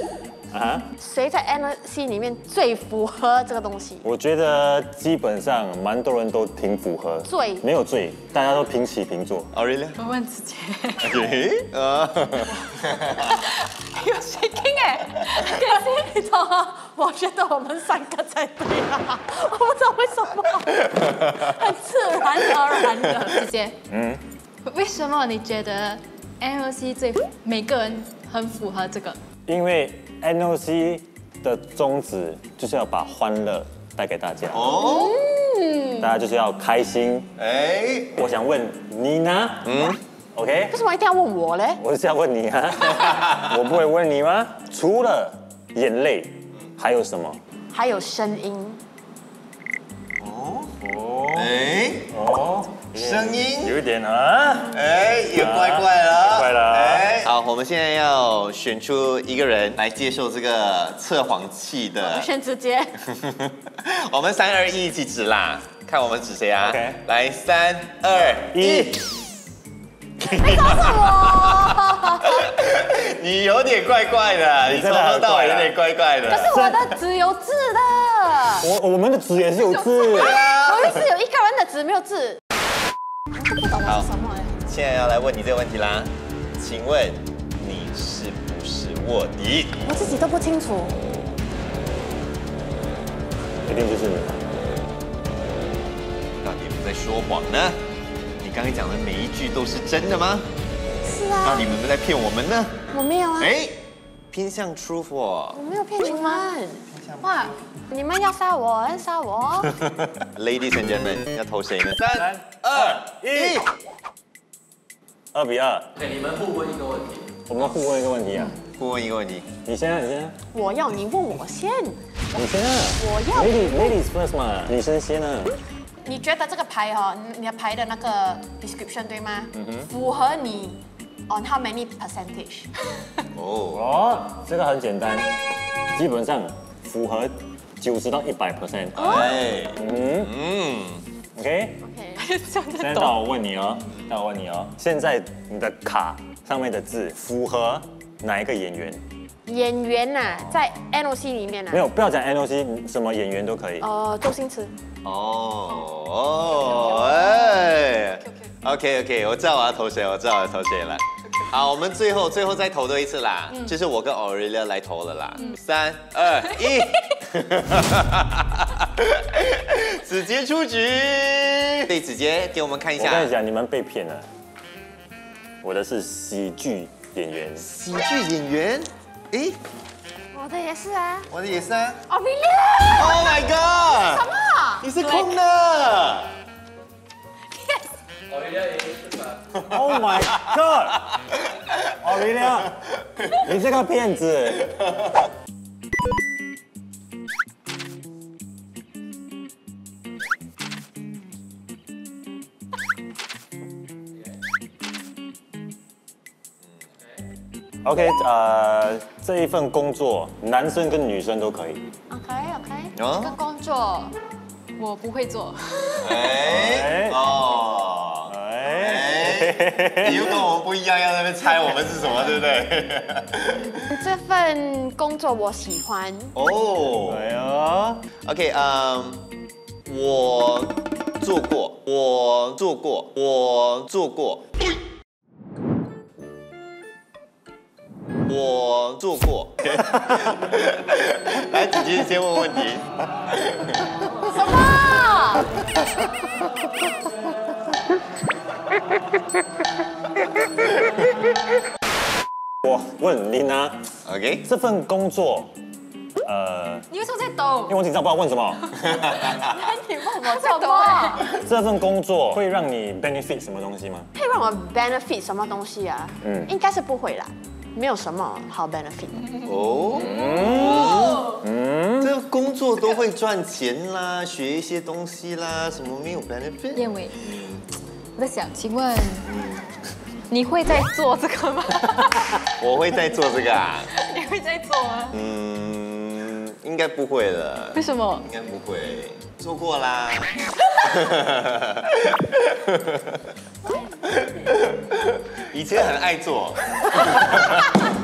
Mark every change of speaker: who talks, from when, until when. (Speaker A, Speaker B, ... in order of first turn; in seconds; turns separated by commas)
Speaker A: 0.5-0.9, Speaker B: 1.0-4.0, Speaker A: 4.0-9.5, Speaker B: 7.2-7.7, Speaker C: 9.5-10.0, Speaker D: 10.0-11.2, Speaker C: 11.0-13.3, Speaker D: 13.2-15.4, Speaker B: 15.2-23.4, Speaker D: 23.3-23.8, Speaker A: 23.9-24.2, Speaker D: 24.6-29.2, Speaker A: 29.5-34.6, Speaker C: 34.5-35.1, Speaker B: 34.7-36.1, Speaker A: 36.0-37.3, Speaker C: 37.4-38.2, Speaker A: 38.1-39.7, Speaker C: 39.6-40.0, Speaker A: 40.3-40.7, Speaker B: 40.7-41.8, Speaker A: 41.8-47.4, Speaker B: 47.7-48.8, Speaker C: 50.2-50.7, Speaker A: 50.8-51.5, Speaker C: 51.3-52.1, Speaker A: 52.1-54.8, Speaker C: 52.9-53.7, Speaker C: 54.7-62.3, Speaker A: 55.3-57.1, Speaker B: 62.0-63.0, Speaker C: 63.2-69.0, Speaker A: 66.6-67.0, Speaker A: 68.5-69.0, Speaker B: 70.2-72.3, Speaker C: 70.2-76.5, Speaker A: 74.7-75.7, Speaker B: 76.3-78.7, Speaker A: 76.5-76.9, Speaker A: 78.6-80.4, Speaker B: 79.9-82.4, Speaker C: 80.1-81.0, Speaker B: 83.3-84.8, Speaker C: 84.7-89.8, Speaker B: 89.8-91.0, Speaker A: 93.7-94.4, Speaker C: 96.4-97.8, Speaker C: 98.4-100.5, Speaker B: 101.0-101.7, Speaker C: 101.4-102.8, Speaker B: 102.9-103.5, Speaker C: 103.4-105.6, Speaker B: 105.5-106.8, Speaker C: 106.9-107.6, Speaker D: 107.2-107.5, Speaker B: 107.9-109.7, Speaker C: 110.2-113.7, Speaker A: 112.1-113.6, Speaker A: 115.3-115.9, Speaker E: 116.0-117.3, Speaker A: 117.5-118.6, Speaker C: 118.7-119.5, Speaker A: 119.7-120.3, Speaker B: 120.5-122.4, Speaker A: 122.3-125.5, Speaker B: 123.0-124.0, Speaker B: 126.0-132.7, Speaker A: 129.6-129.8, Speaker C: 133.3-133.8, Speaker A: 133.7-135.3, Speaker A: 135.9-139.2, Speaker C: 138.9-141.1, Speaker B: 139.0-139.4, Speaker A: 139.7-140.3, Speaker A: 141.3-141.8, Speaker B: 141.8-142.2, Speaker D: 142.2-143.2, Speaker A: 142.8-149.0, Speaker B: 149.4-151.9, Speaker A: 151.7-153.8, Speaker B: 153.8-154.7, Speaker C: 155.0-173.3, Speaker D: 156.7-158.4, Speaker A: 173.0-174.3, Speaker A: 175.6-177.6, Speaker C: 177.6-179.6, Speaker B: 180.3-181.3, Speaker C: 181.3-182.0, Speaker B: 182.1-185.3, Speaker C: 182.9-184.3, Speaker C: 184.8-186.3, Speaker E: 188.3-189.4, Speaker A: 189.6-191.0, Speaker A: 192.0-192.8, Speaker A: 193.3-194.7, Speaker A: 207.8-211.8, Speaker B: 212.1-212.9, Speaker C: 212.9-213.3, Speaker D: 213.2-214.2, Speaker D: 214.8-216.4, Speaker C: 216.0-223.8, Speaker A: 216.4-217.2, Speaker A: 218.3-220.4, Speaker B: 223.9-226.3, Speaker C: 226.3-227.2, Speaker A: 227.1-228.0, Speaker C: 228.2-229.3, Speaker C: 229.8-234.4, Speaker C: 238.2-243.9, Speaker B: 244.2-245.5, Speaker A: 252.6-253.8, Speaker C: 254.0-254.4, Speaker A: 254.4-255.5, Speaker A: 256.2-256.9, Speaker D: 256.9-257.8, Speaker A: 257.7-258.6, Speaker C: 258.9-259.5, Speaker B: 259.4-261.2, Speaker D: 260.2-261.3, Speaker A: 261.3-264.1, Speaker B: 264.1-269.4, Speaker C: 269.4-271.3, Speaker D: 269.9-271.3, Speaker A: 270.0-272.1, Speaker C: 272.0-277.6, Speaker D: 276.7-277.2, Speaker D: 278.1-279.3, Speaker C: 279.2-279.6, Speaker D: 280.3-282.4, Speaker C: 282.6-283.9, Speaker D: 283.9-285.2, Speaker C: 285.1-293.2, Speaker D: 287.7-288.2, Speaker C: 294.1-297.8